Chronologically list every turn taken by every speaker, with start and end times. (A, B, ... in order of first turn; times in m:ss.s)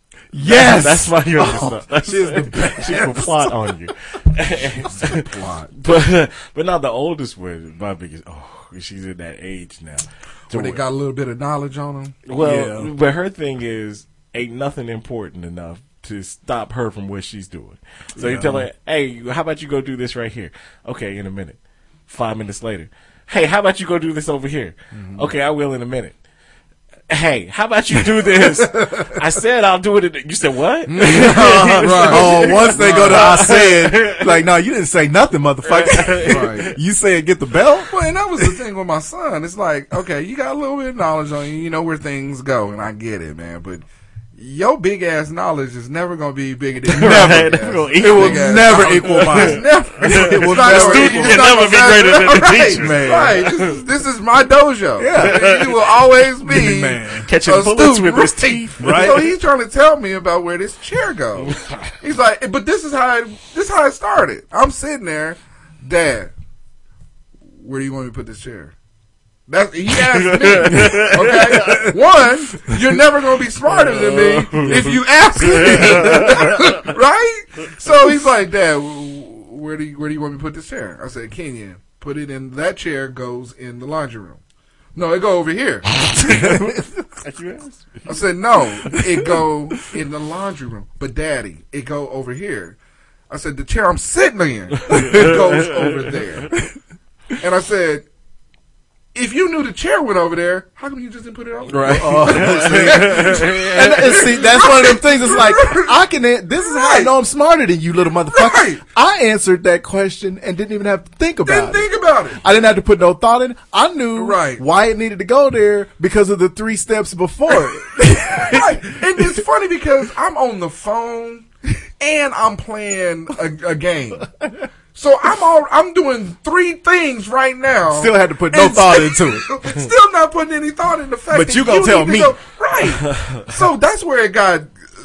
0:00.3-0:03.8 A
0:00.4-0:10.8 B
0:05.0-0:05.7 C
0:10.5-0:12.2 C
0:12.3-0:26.2 B
0:12.4-0:12.9 A
0:18.2-0:18.7 A
0:24.9-0:25.3 C
0:27.1-0:34.4 B
0:30.9-0:33.5 C
0:31.0-0:37.9 A
0:35.7-0:36.6 B
0:36.2-0:36.7 C
0:37.9-0:43.8 C
0:44.4-1:06.3 C
0:46.9-0:53.8 B
0:46.9-0:51.5 A
0:52.7-0:53.5 A
0:55.0-0:55.7 A
0:55.2-0:55.5 B
0:56.3-0:57.3 A
0:57.3-0:59.1 B
0:58.8-0:59.3 A
1:07.6-1:08.7 C
1:09.5-1:24.4 C
1:10.0-1:11.9 B
1:10.7-1:12.0 A
1:12.7-1:13.0 A
1:13.7-1:16.8 B
1:14.6-1:16.6 A
1:25.0-1:25.9 C
1:26.1-1:27.0 A
1:26.2-1:28.1 B
1:28.1-1:32.8 C
1:28.8-1:29.3 A
1:33.3-1:36.5 C
1:34.9-1:35.4 A
1:34.9-1:35.8 B
1:37.4-1:38.0 C
1:39.2-1:45.9 C
1:41.7-1:44.2 B
1:41.8-1:59.4 A
1:46.7-1:47.1 C
1:48.3-1:48.8 C
1:51.4-1:52.4 C
1:54.2-1:54.6 C
1:58.4-2:01.5 C
2:02.0-2:04.3 C
2:05.0-2:14.7 C
2:07.9-2:09.5 A
2:11.3-2:12.4 A